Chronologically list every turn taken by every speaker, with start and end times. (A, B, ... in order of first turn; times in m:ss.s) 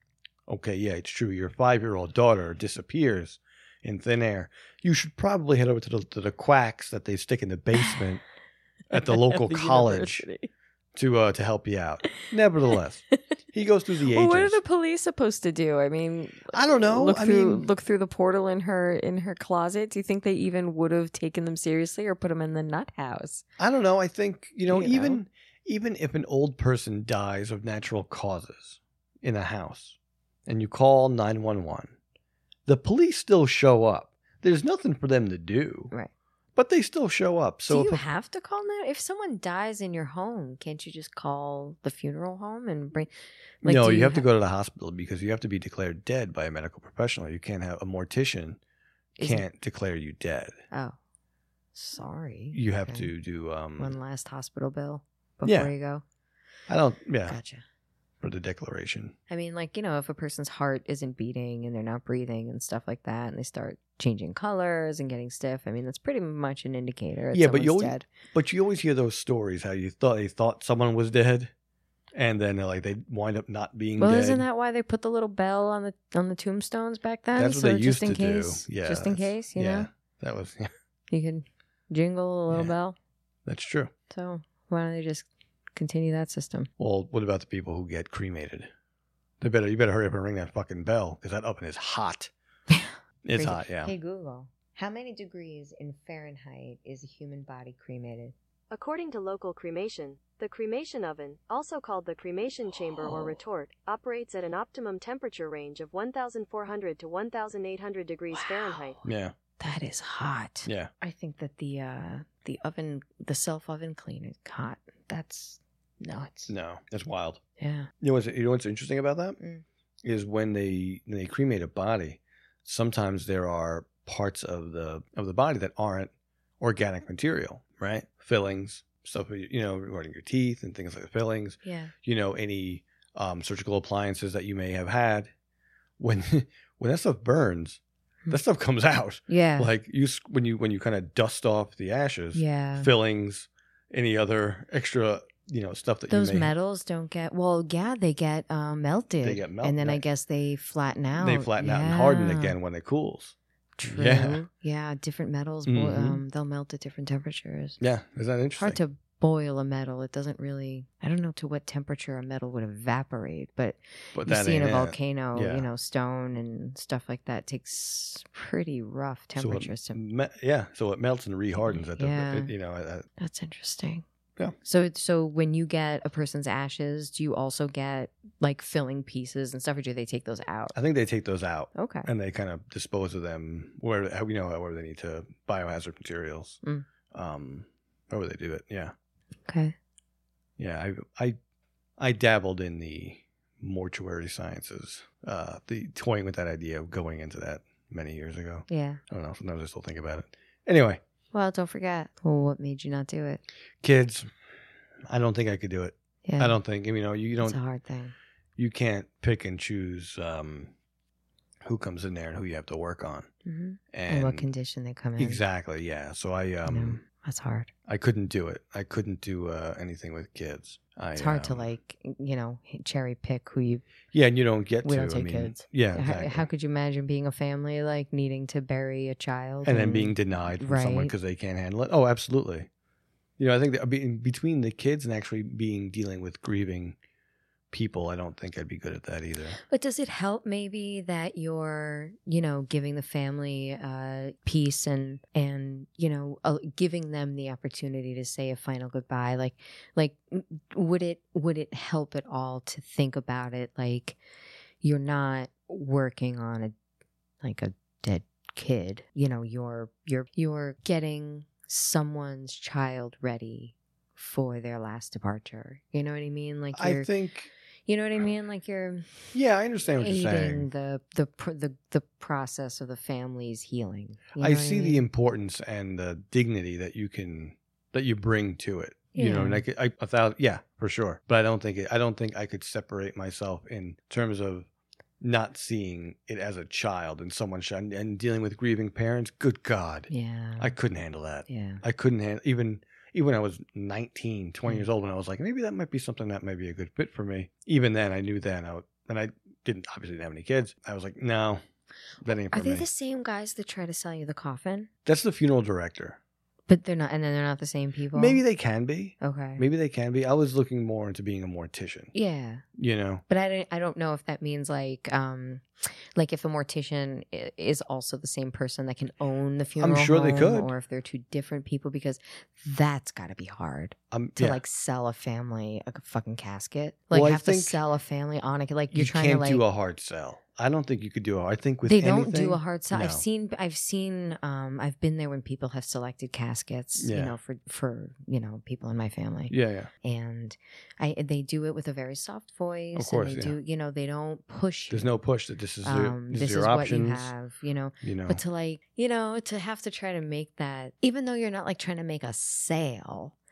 0:00.5-0:08.2 A
0:08.9-0:10.2 A
0:08.9-0:10.5 B
0:10.9-0:14.6 A
0:14.1-0:23.4 B
0:16.5-0:17.6 A
0:23.6-0:31.9 A
0:24.7-0:25.2 B
0:32.6-0:35.9 A
0:36.6-0:38.0 A
0:37.7-0:43.1 B
0:43.6-0:44.2 B
0:43.6-0:48.6 A
0:49.2-0:49.4 B
0:49.2-0:50.6 A
0:50.7-0:51.0 B
0:51.7-0:53.1 B
0:52.5-0:54.0 A
0:53.8-0:56.0 B
0:55.4-0:55.7 A
0:56.7-0:57.4 A
0:57.3-0:57.6 B
0:58.2-0:59.1 A
0:59.3-1:08.1 B
1:07.3-1:11.5 A
1:12.1-1:14.4 A
1:14.0-1:19.9 B
1:17.3-1:20.7 A
1:21.1-1:23.0 B
1:23.4-1:23.9 A
1:24.1-1:26.7 B
1:26.8-1:28.7 A
1:29.4-1:32.3 A
1:32.7-1:38.3 B
1:33.2-1:33.9 A
1:38.7-1:49.0 C
1:42.8-1:43.4 B
1:48.3-1:49.0 B
1:49.0-1:49.3 A
1:49.6-1:56.5 B
1:50.6-1:50.9 A
1:56.5-1:57.4 A
1:57.6-1:57.9 B
1:58.0-1:59.4 A
1:59.4-1:59.6 B
2:00.0-2:15.3 A
2:11.6-2:11.9 B
2:16.0-2:26.5 A
2:19.3-2:19.7 B
2:22.3-2:22.9 B
2:26.1-2:32.6 B
2:29.2-2:30.0 A
2:31.2-2:33.3 A
2:33.8-2:37.8 B
2:33.8-2:34.4 A
2:35.6-2:36.2 A
2:37.8-2:38.8 A
2:38.6-2:50.0 B
2:44.1-2:45.7 A
2:49.4-2:53.1 A
2:51.6-2:52.5 B
2:53.2-2:54.0 B
2:54.6-3:00.7 B
3:00.7-3:08.9 A
3:01.7-3:02.1 B
3:09.5-3:09.7 B
3:10.6-3:11.4 A
3:12.0-3:21.0 A
3:18.7-3:19.0 B
3:21.3-3:23.4 B
3:23.8-3:24.3 A
3:25.1-3:27.6 A
3:26.2-3:26.6 B
3:27.4-3:28.1 B
3:28.6-3:30.7 A
3:31.6-3:33.3 A
3:33.4-3:35.4 B
3:33.9-3:34.5 A
3:35.2-3:37.0 A
3:36.6-3:37.7 B
3:37.9-3:41.6 A
3:41.2-3:43.8 B
3:44.1-3:46.4 A
3:44.8-3:51.1 B
3:49.6-3:52.7 A
3:53.4-3:57.0 A
3:57.7-3:59.6 A
3:59.6-4:14.2 B
4:14.8-4:16.7 B
4:17.4-4:27.1 B
4:26.7-4:27.5 A
4:27.9-4:29.3 B
4:29.3-4:30.7 A
4:30.0-4:35.0 B
4:34.4-4:44.7 A
4:39.1-4:39.6 B
4:45.2-5:01.6 A
4:50.1-4:50.7 B
4:51.5-4:51.8 B
5:02.2-5:02.8 A
5:02.5-5:04.9 B
5:05.0-5:06.2 A
5:06.7-5:08.4 B
5:08.1-5:12.1 A
5:09.2-5:09.6 B
5:12.1-5:12.6 B
5:12.7-5:13.2 A
5:13.3-5:29.6 B
5:19.8-5:20.7 A
5:24.1-5:24.6 A
5:27.1-5:27.8 A
5:28.9-5:33.2 A
5:31.8-5:45.1 B
5:37.0-5:37.3 A
5:39.5-5:39.9 A
5:42.9-5:43.6 A
5:44.9-5:47.3 A
5:45.8-5:53.3 B
5:48.0-5:48.4 A